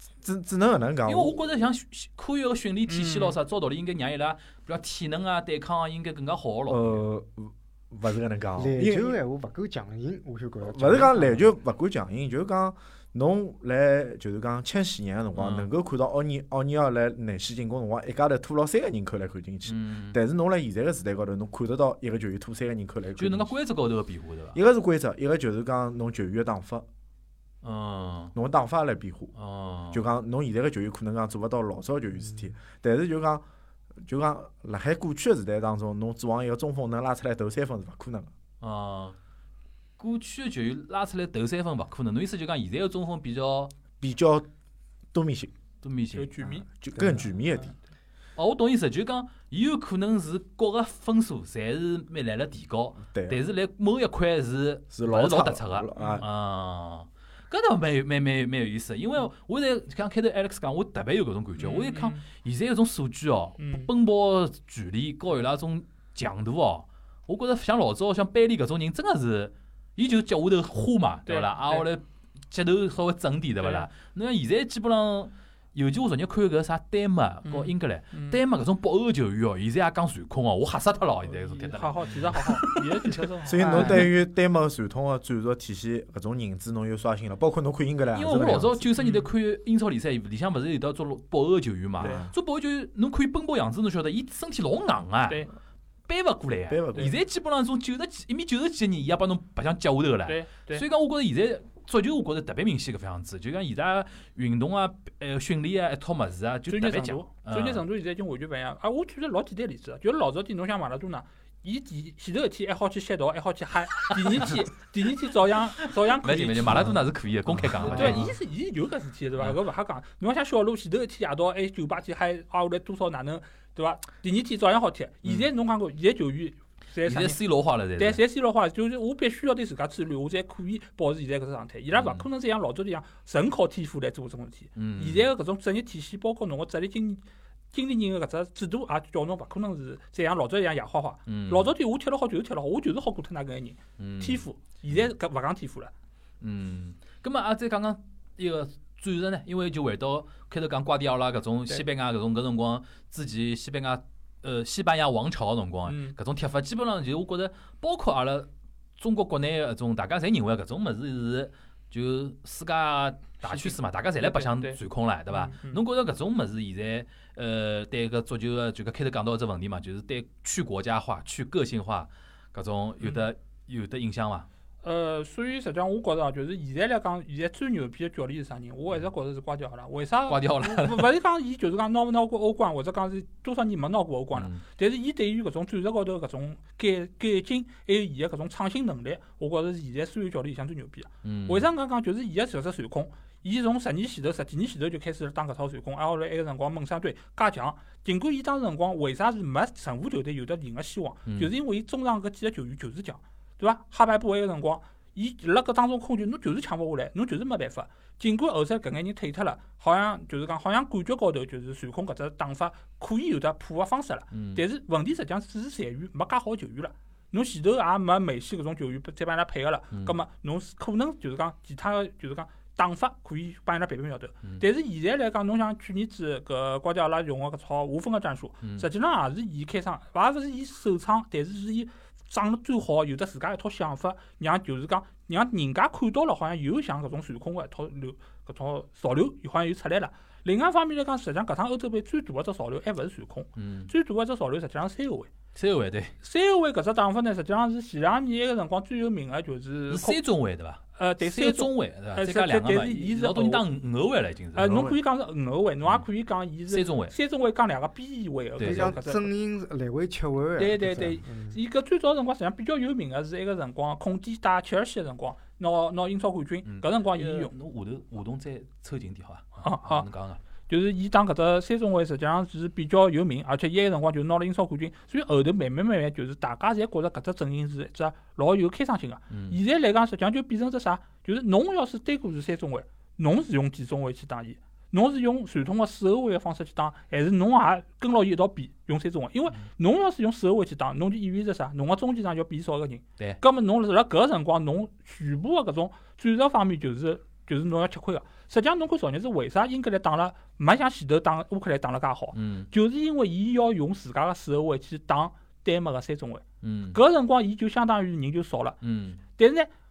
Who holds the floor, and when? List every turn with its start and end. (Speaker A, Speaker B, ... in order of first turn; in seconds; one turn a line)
Speaker A: 0.2-1.4
Speaker B: 1.1-7.0
Speaker C: 2.9-3.4
Speaker A: 6.7-9.2
Speaker D: 8.6-11.5
Speaker A: 10.6-23.5
Speaker B: 15.4-15.7
Speaker B: 19.6-20.2
Speaker B: 23.2-24.6
Speaker A: 24.5-26.9
Speaker B: 27.6-28.3
Speaker A: 28.3-29.3
Speaker B: 29.4-30.0
Speaker A: 29.9-33.4
Speaker A: 34.0-38.3
Speaker B: 38.6-39.2
Speaker B: 40.0-43.7
Speaker A: 44.0-44.5
Speaker A: 45.1-45.5
Speaker B: 45.8-46.4
Speaker C: 46.1-46.7
Speaker A: 46.7-47.7
Speaker B: 48.4-84.1
Speaker A: 53.0-53.4
Speaker A: 54.9-56.2
Speaker C: 56.0-56.2
Speaker C: 61.6-62.2
Speaker C: 63.6-63.9
Speaker C: 71.3-71.9
Speaker C: 73.6-73.9
Speaker C: 77.5-78.4
Speaker C: 81.3-84.1
Speaker A: 83.5-88.9
Speaker D: 83.6-84.0
Speaker B: 88.2-95.5
Speaker C: 89.0-89.3
Speaker A: 92.0-92.3
Speaker B: 96.1-107.8
Speaker A: 96.7-97.2
Speaker C: 100.3-100.8
Speaker C: 106.7-116.9
Speaker B: 114.1-114.6
Speaker B: 116.2-118.3
Speaker C: 117.9-127.4
Speaker A: 117.9-118.3
Speaker B: 127.0-128.2
Speaker C: 128.0-145.9
Speaker B: 131.9-132.3
Speaker B: 134.8-135.3
Speaker B: 141.3-141.7
Speaker B: 144.0-145.1
Speaker B: 146.4-174.5
Speaker C: 155.9-156.2
Speaker C: 163.4-164.8
Speaker C: 165.3-165.8
Speaker C: 174.8-245.3
Speaker B: 180.3-181.1
Speaker B: 184.3-184.6
Speaker B: 191.2-191.7
Speaker B: 201.3-201.5
Speaker B: 214.3-214.6
Speaker B: 243.6-243.9
Speaker B: 245.6-246.1
Speaker C: 246.2-250.2
Speaker B: 249.9-254.9
Speaker C: 251.0-253.6
Speaker C: 254.6-259.3
Speaker A: 254.7-255.0
Speaker B: 256.7-257.1
Speaker B: 258.6-259.0
Speaker D: 258.6-261.6
Speaker C: 260.6-267.5
Speaker B: 266.6-270.4
Speaker C: 269.6-270.1
Speaker C: 270.7-308.8
Speaker B: 279.3-279.6
Speaker B: 302.3-302.7
Speaker B: 306.6-307.0
Speaker B: 308.8-309.2
Speaker C: 309.3-309.7